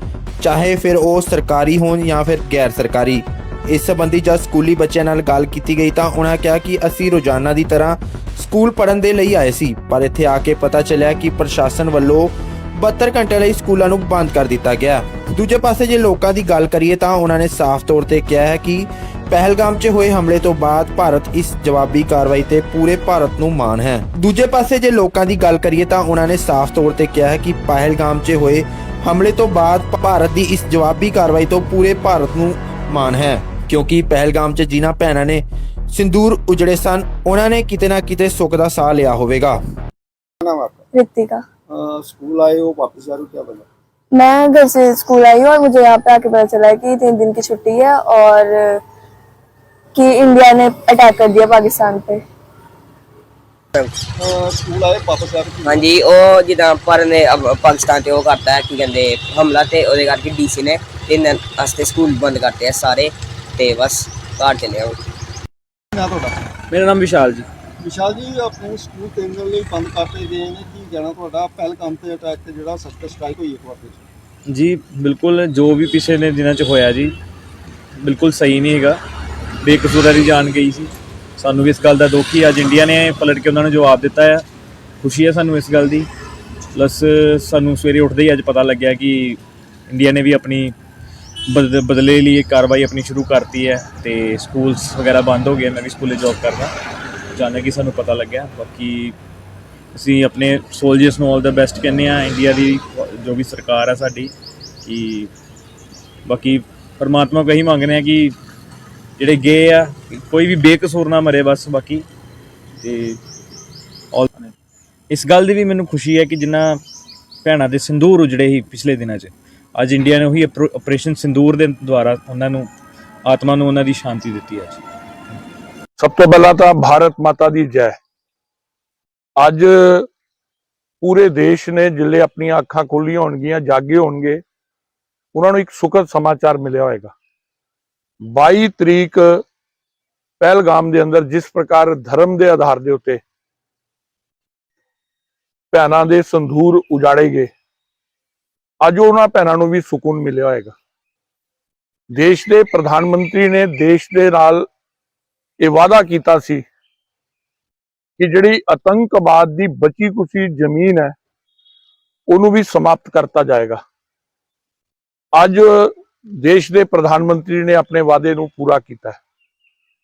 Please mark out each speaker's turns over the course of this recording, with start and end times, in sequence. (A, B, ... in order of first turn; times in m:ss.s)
0:00.4-0:39.6 A
0:40.4-0:40.9 B
0:40.9-0:41.4 C
0:41.7-0:43.7 B
0:44.2-0:48.8 C
0:50.0-0:52.2 C
0:54.2-0:56.0 B
0:55.7-1:05.0 D
1:05.9-1:06.4 B
1:06.7-1:07.5 E
1:07.8-1:14.0 B
1:14.5-1:17.1 E
1:18.0-1:19.0 E
1:19.6-1:24.4 E
1:25.0-1:26.1 E
1:26.7-1:30.7 E
1:31.5-1:36.7 E
1:37.3-1:39.2 E
1:39.9-1:44.3 E
1:44.8-1:45.3 E
1:46.2-1:48.4 E
1:49.2-1:52.0 E
1:52.8-1:53.2 E
1:54.1-1:54.5 E
1:55.1-1:56.8 E
1:57.4-2:02.7 E
2:03.2-2:04.8 E
2:06.0-2:08.0 F
2:09.4-2:10.1 F
2:11.0-2:14.4 F
2:15.3-2:17.1 F
2:18.2-2:19.4 F
2:20.4-2:23.2 F
2:25.7-2:27.5 F
2:28.8-2:30.8 F
2:32.1-2:34.7 F
2:35.6-2:36.7 F
2:38.2-2:41.2 F
2:42.3-2:43.8 F
2:45.3-2:49.2 F